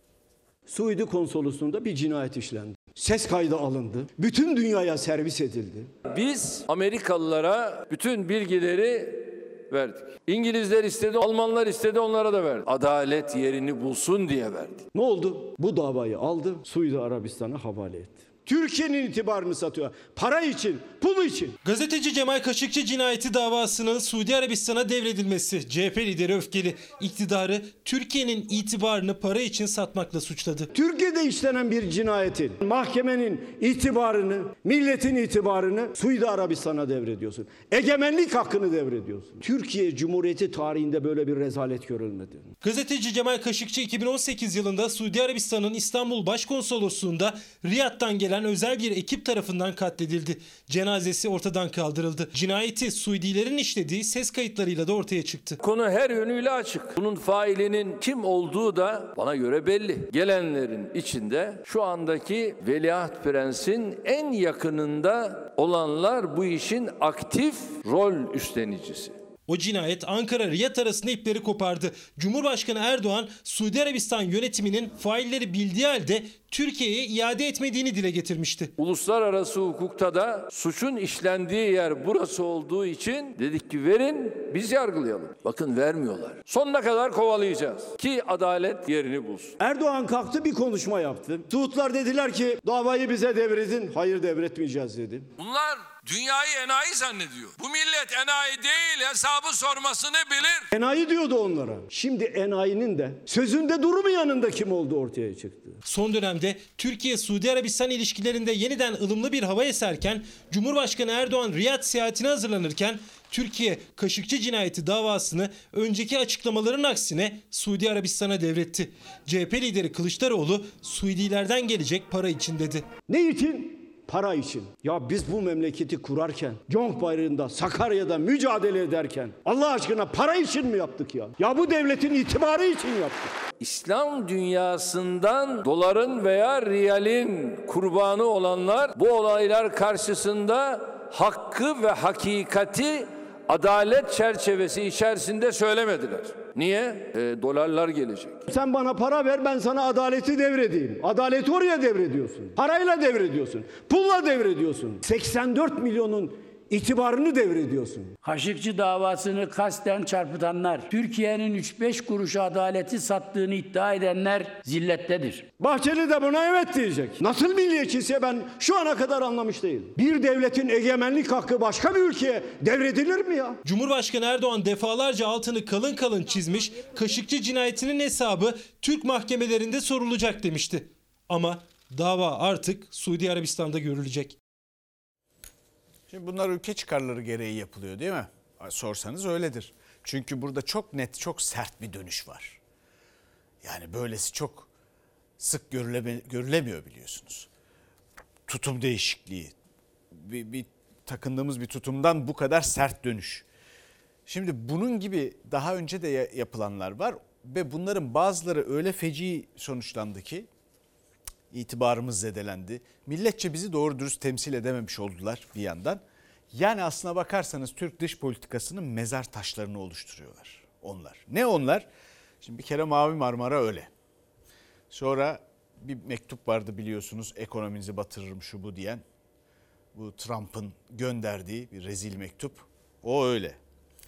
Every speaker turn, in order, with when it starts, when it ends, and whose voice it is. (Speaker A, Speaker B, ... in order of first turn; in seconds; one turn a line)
Speaker A: 0.7-5.9
Speaker B: 6.1-14.8
Speaker A: 14.9-21.6
Speaker C: 21.6-30.7
Speaker A: 30.7-42.5
Speaker C: 42.6-55.6
Speaker B: 55.6-69.2
Speaker C: 69.5-78.7
Speaker B: 78.8-89.5
Speaker A: 89.6-95.3
Speaker B: 95.4-100.7
Speaker A: 100.7-105.8
Speaker C: 105.8-122.8
Speaker A: 123.1-133.3
Speaker B: 133.6-148.4
Speaker A: 148.5-158.2
Speaker D: 158.2-165.5
Speaker A: 165.6-173.6
Speaker C: 173.6-184.4
Speaker E: 186.1-192.6
Speaker E: 193.6-194.7
Speaker E: 195.4-197.5
Speaker E: 198.5-199.5
Speaker E: 200.1-203.4
Speaker E: 204.3-210.5
Speaker E: 211.5-216.0
Speaker E: 216.5-221.9
Speaker E: 222.4-223.9
Speaker E: 224.9-229.0
Speaker E: 229.9-233.6